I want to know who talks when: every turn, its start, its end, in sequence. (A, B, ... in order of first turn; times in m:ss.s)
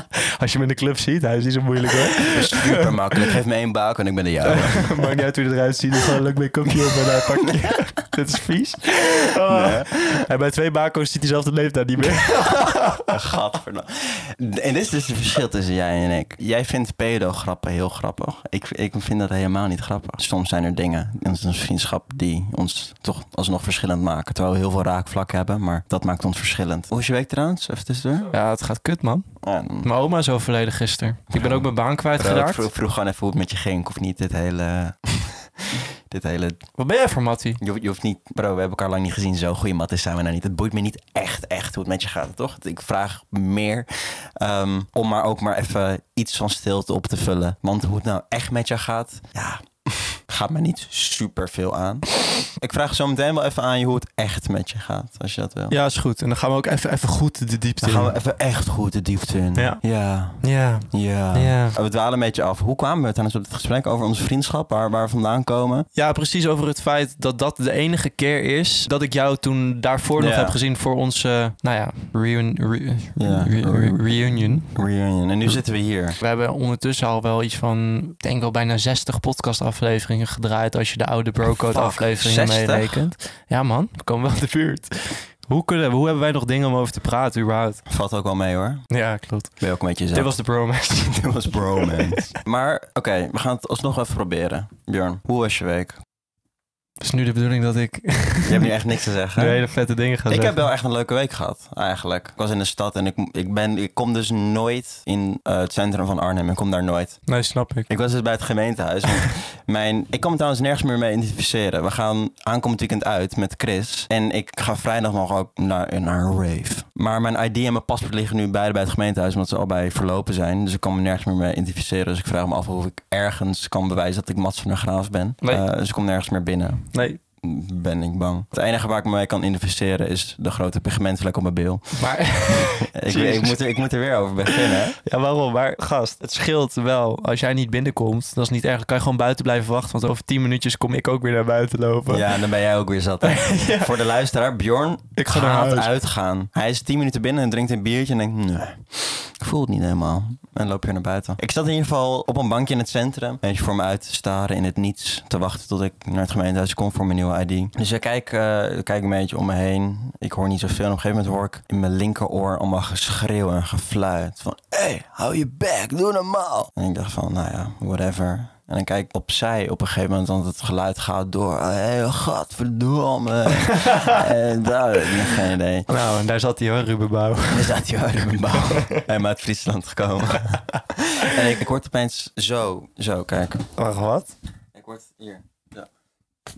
0:00.2-0:03.4 A
0:02.2-0:05.2 B
0:04.4-0:13.1 A
0:07.4-0:07.8 B
0:09.4-0:10.2 B
0:13.1-0:28.3 B
0:28.3-0:29.2 A
0:29.4-0:29.9 B
0:29.8-0:32.7 A
0:31.3-0:36.6 B
0:36.8-0:37.6 A
0:37.6-0:55.8 B
0:55.7-0:58.1 A
0:57.8-1:05.9 B
0:59.6-0:59.8 A
1:00.4-1:01.8 A
1:05.9-1:14.7 A
1:10.2-1:10.6 B
1:13.2-1:16.2 B
1:16.2-1:27.8 A
1:21.7-1:23.0 B
1:27.9-1:28.8 B
1:28.9-1:29.6 A
1:29.6-1:30.3 B
1:30.1-1:32.3 A
1:31.0-1:36.0 B
1:37.0-1:38.7 A
1:38.4-1:39.6 B
1:39.4-1:40.6 A
1:40.3-1:47.2 B
1:47.3-1:47.9 A
1:47.9-2:06.9 B
2:06.9-2:07.2 A
2:07.4-2:12.1 B
2:12.0-2:13.6 A
2:12.9-2:15.0 B
2:14.4-2:22.4 A
2:22.1-2:55.9 B
2:23.2-2:23.9 A
2:25.2-2:25.9 A
2:53.7-2:54.2 A
2:55.9-2:57.8 A
2:57.5-3:03.7 B
2:58.5-2:59.0 A
3:03.8-3:04.3 A
3:04.7-3:05.9 B